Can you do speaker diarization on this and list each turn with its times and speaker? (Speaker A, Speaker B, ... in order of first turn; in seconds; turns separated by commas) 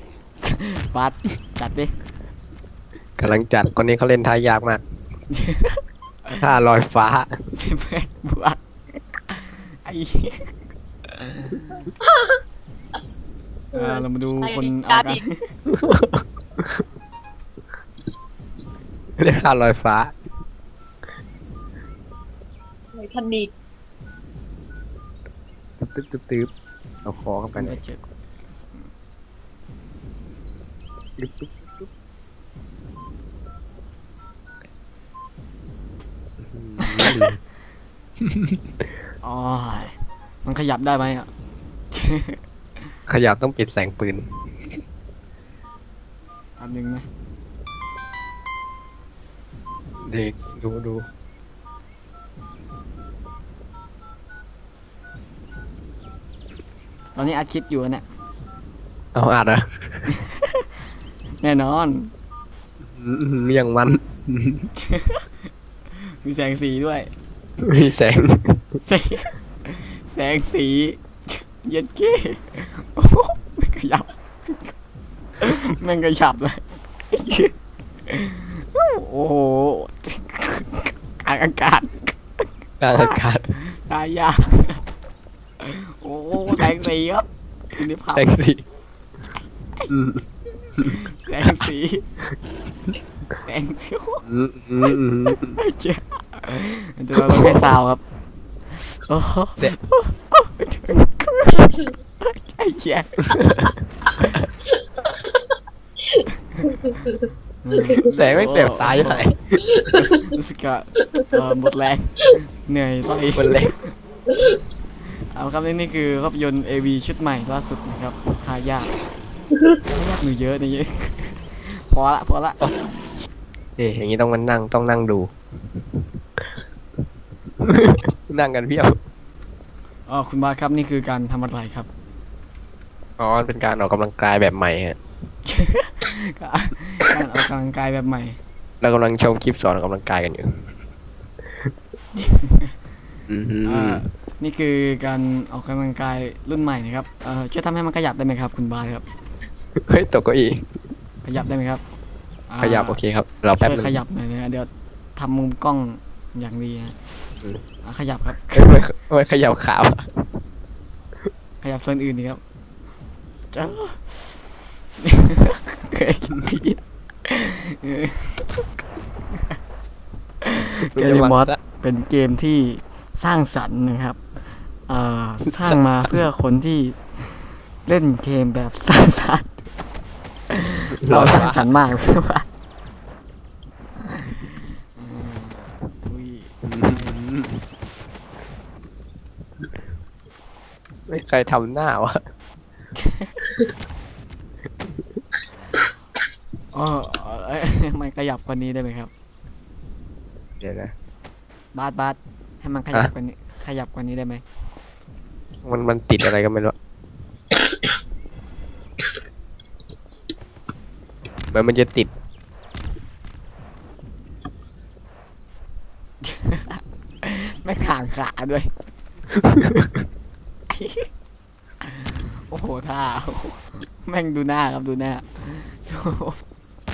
Speaker A: 0.4-1.9, Speaker B: 3.2-4.8, Speaker A: 5.3-6.4, Speaker B: 6.4-7.3, Speaker A: 7.5-8.6, Speaker A: 9.1-10.5, Speaker A: 11.1-11.9, Speaker C: 13.7-15.2, Speaker A: 13.7-15.5, Speaker B: 15.7-16.8, Speaker B: 19.2-20.2, Speaker C: 22.9-23.5, Speaker B: 25.8-26.5, Speaker B: 27.0-27.8, Speaker A: 27.5-28.9, Speaker B: 31.2-31.9, Speaker B: 36.5-37.4, Speaker A: 36.8-37.3, Speaker B: 38.2-38.6, Speaker A: 39.2-41.3, Speaker A: 41.9-42.4, Speaker B: 43.1-44.2, Speaker A: 46.6-47.0, Speaker B: 50.1-51.0, Speaker A: 57.1-58.0, Speaker B: 59.1-60.0, Speaker A: 60.1-60.7, Speaker A: 61.4-62.1, Speaker B: 62.9-64.7, Speaker A: 64.8-65.3, Speaker A: 66.0-67.1, Speaker B: 67.6-68.6, Speaker A: 68.8-74.7, Speaker A: 75.4-77.5, Speaker A: 78.1-82.2, Speaker B: 82.8-83.5, Speaker A: 82.9-84.8, Speaker A: 85.6-88.3, Speaker B: 88.1-88.6, Speaker B: 89.9-90.2, Speaker A: 90.7-92.0, Speaker A: 93.3-94.2, Speaker B: 94.3-95.6, Speaker A: 94.8-98.0, Speaker B: 97.1-97.7, Speaker A: 98.7-103.3, Speaker B: 103.3-104.5, Speaker C: 106.1-107.1, Speaker A: 107.6-109.2, Speaker B: 107.9-109.8, Speaker C: 109.8-110.1, Speaker A: 109.9-113.9, Speaker B: 113.3-113.7, Speaker A: 115.0-119.0, Speaker A: 119.8-123.2, Speaker B: 123.8-125.3, Speaker B: 127.6-128.9, Speaker A: 130.1-131.9, Speaker B: 133.2-135.0, Speaker A: 135.4-138.4, Speaker B: 138.8-140.6, Speaker A: 142.2-142.7, Speaker B: 143.3-144.0, Speaker A: 143.6-149.0, Speaker B: 149.8-150.7, Speaker A: 151.2-151.8, Speaker A: 152.5-153.0, Speaker B: 152.6-153.9, Speaker A: 153.6-156.9, Speaker A: 157.8-158.8, Speaker B: 158.5-160.1, Speaker A: 161.6-162.4, Speaker A: 163.5-166.5, Speaker B: 166.3-166.8, Speaker A: 167.2-168.7, Speaker A: 169.3-169.6, Speaker A: 170.4-174.2, Speaker B: 170.9-171.6, Speaker A: 174.9-179.6, Speaker A: 180.5-182.4, Speaker B: 181.0-181.7, Speaker A: 184.1-187.2, Speaker B: 186.7-187.6, Speaker B: 191.1-192.2, Speaker A: 192.9-193.5, Speaker A: 196.7-199.1, Speaker B: 200.6-200.9, Speaker A: 201.7-204.4, Speaker B: 205.6-206.7, Speaker B: 211.5-212.1, Speaker A: 216.2-218.7, Speaker B: 219.3-220.0, Speaker A: 220.7-221.1, Speaker A: 221.8-226.4